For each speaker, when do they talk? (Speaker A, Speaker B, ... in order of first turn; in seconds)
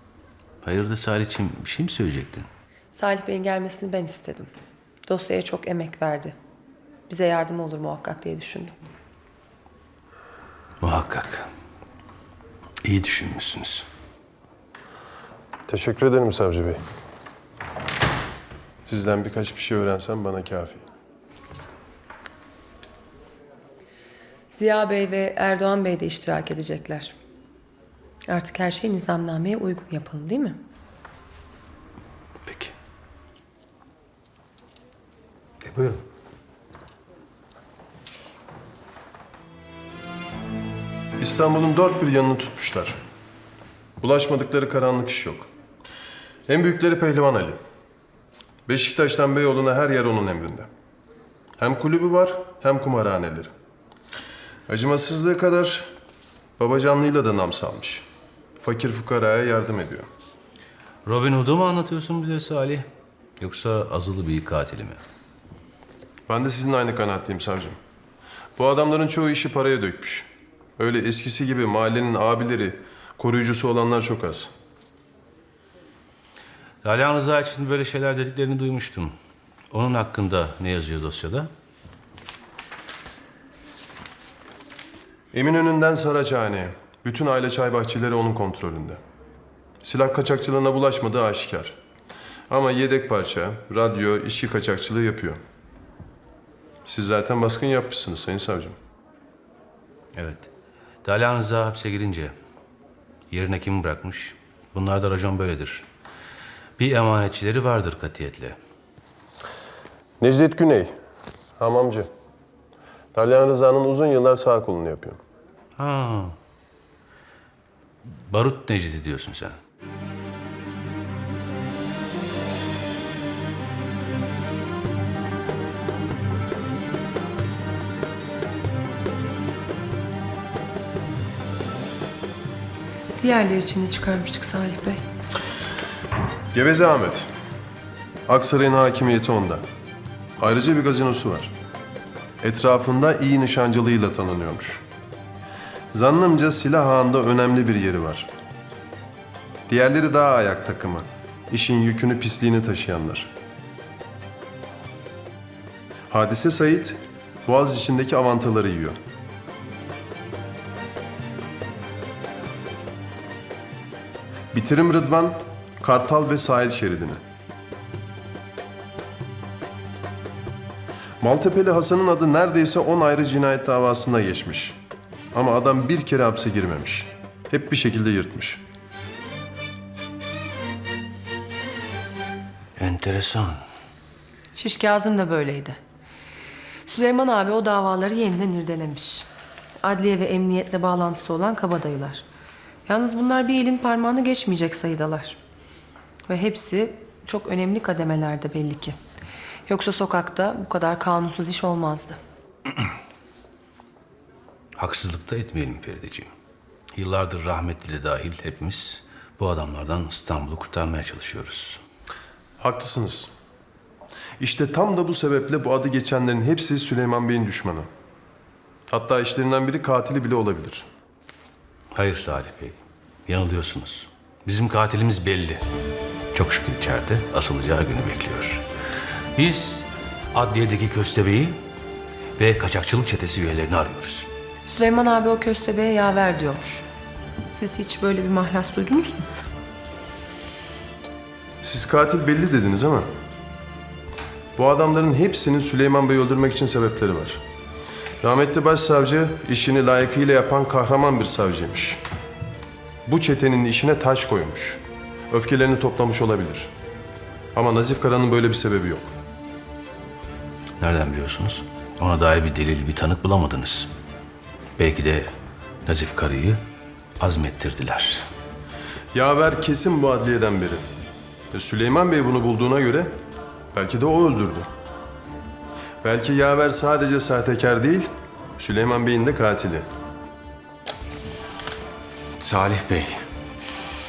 Speaker A: 0.6-2.5, 10.8-11.5, 12.8-13.9, 32.5-32.7, 35.6-36.0, 61.0-62.9, 63.4-65.0, 76.8-79.1, 79.7-81.5, 100.2-100.5, 101.0-102.3, 103.3-105.9, 106.8-108.6, 115.8-116.4, 118.0-119.6, 182.8-183.6, 204.8-206.3, 206.9-211.8, 221.9-225.6, 226.3-228.6, 229.4-231.6, 232.4-234.3, 260.8-263.9, 264.8-265.3, 265.9-266.6, 267.2-268.2, 282.4-283.2
Speaker B: 2.9-4.5, 5.1-6.4, 7.1-8.8, 24.5-27.1, 28.3-30.6, 133.2-135.0, 184.6-185.8, 186.9-189.3, 189.8-192.2, 192.9-195.4, 196.3-199.0, 199.7-202.2, 234.7-236.8, 237.5-239.3
Speaker C: 15.7-16.8, 18.9-20.9, 41.2-43.0, 44.0-45.5, 46.5-47.6, 48.7-50.7, 51.6-53.5, 54.7-55.9, 56.6-58.0, 58.6-60.1, 66.3-67.8, 68.6-74.5, 85.3-89.0, 89.8-91.8, 92.5-95.4, 96.8-98.8, 110.2-111.0, 111.6-112.1, 113.1-115.2, 136.5-137.3, 138.3-139.7, 140.4-141.5, 142.4-144.8, 145.9-148.3, 149.7-153.3, 156.1-159.0, 164.5-167.2, 171.2-174.8, 175.3-178.6, 212.6-213.3, 214.4-217.9, 218.9-220.9, 241.6-243.1, 244.6-247.4, 248.2-252.0, 253.1-256.7, 257.5-259.1, 269.1-270.9, 271.5-273.2, 273.7-274.7, 276.0-279.9